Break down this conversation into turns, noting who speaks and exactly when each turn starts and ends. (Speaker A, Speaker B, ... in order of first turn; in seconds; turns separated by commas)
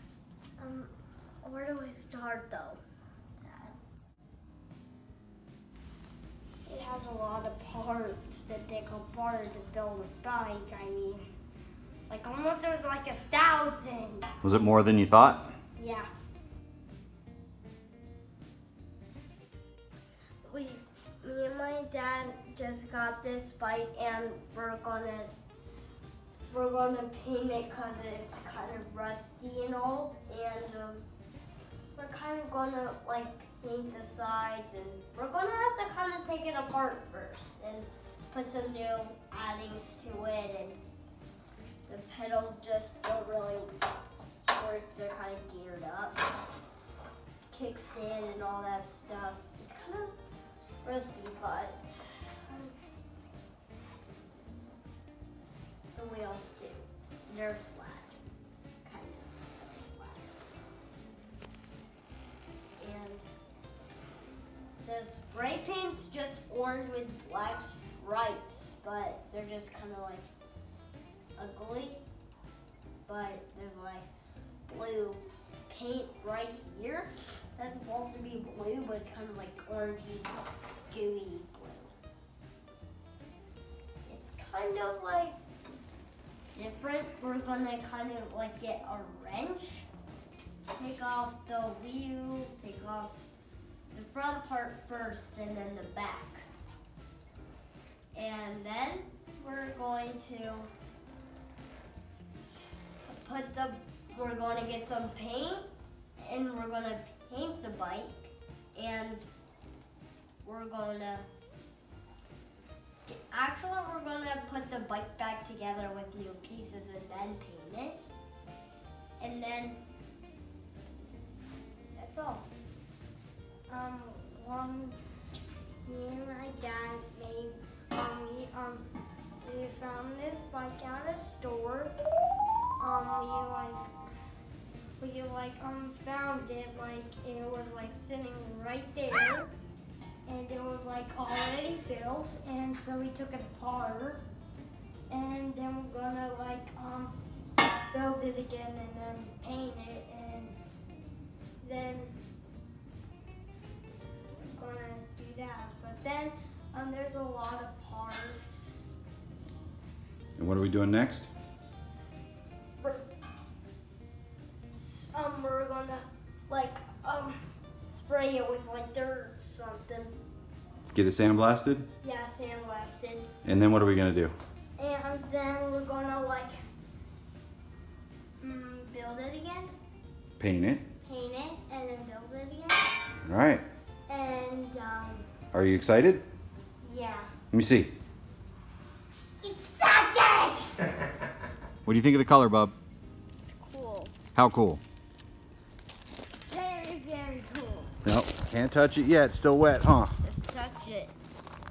Speaker A: 0.6-0.9, Speaker A: 1.4-2.8, Speaker A: 3.4-3.8, Speaker A: 6.7-11.3, Speaker A: 12.1-14.3, Speaker B: 14.4-15.5, Speaker A: 15.8-16.1, Speaker A: 20.4-25.3, Speaker A: 26.5-31.1, Speaker A: 31.9-40.8, Speaker A: 41.9-43.7, Speaker A: 44.5-46.2, Speaker A: 47.5-50.1, Speaker A: 50.8-52.8, Speaker A: 55.9-58.2, Speaker A: 58.8-60.3, Speaker A: 62.8-63.2, Speaker A: 64.8-70.3, Speaker A: 71.4-72.0, Speaker A: 73.1-74.1, Speaker A: 74.7-80.4, Speaker A: 80.9-81.9, Speaker A: 84.1-85.4, Speaker A: 86.5-89.9, Speaker A: 90.7-93.2, Speaker A: 93.9-96.5, Speaker A: 98.1-100.7, Speaker A: 103.1-105.7, Speaker A: 106.2-109.2, Speaker A: 110.4-111.3, Speaker A: 113.1-118.0, Speaker A: 119.2-119.8, Speaker A: 122.0-122.5, Speaker A: 123.7-125.0, Speaker A: 125.8-128.8, Speaker A: 129.4-131.9, Speaker A: 132.8-133.9, Speaker A: 135.0-139.5, Speaker A: 140.3-144.2, Speaker A: 145.1-147.2, Speaker A: 147.9-150.6, Speaker A: 151.6-152.2, Speaker A: 154.5-159.0, Speaker B: 160.4-161.3, Speaker A: 162.8-163.1, Speaker A: 164.7-170.2, Speaker B: 170.9-171.9, Speaker A: 172.0-173.3, Speaker B: 173.4-174.3, Speaker A: 174.8-176.6, Speaker A: 178.4-179.7, Speaker B: 180.4-180.8, Speaker A: 181.0-182.9, Speaker B: 183.2-183.7, Speaker A: 184.1-185.2, Speaker B: 185.5-186.2, Speaker A: 186.8-187.3, Speaker B: 187.5-187.9, Speaker A: 189.4-190.8, Speaker B: 191.9-192.8, Speaker A: 193.4-194.1, Speaker B: 194.3-194.8, Speaker A: 196.5-197.9, Speaker B: 198.1-200.2, Speaker A: 200.2-201.1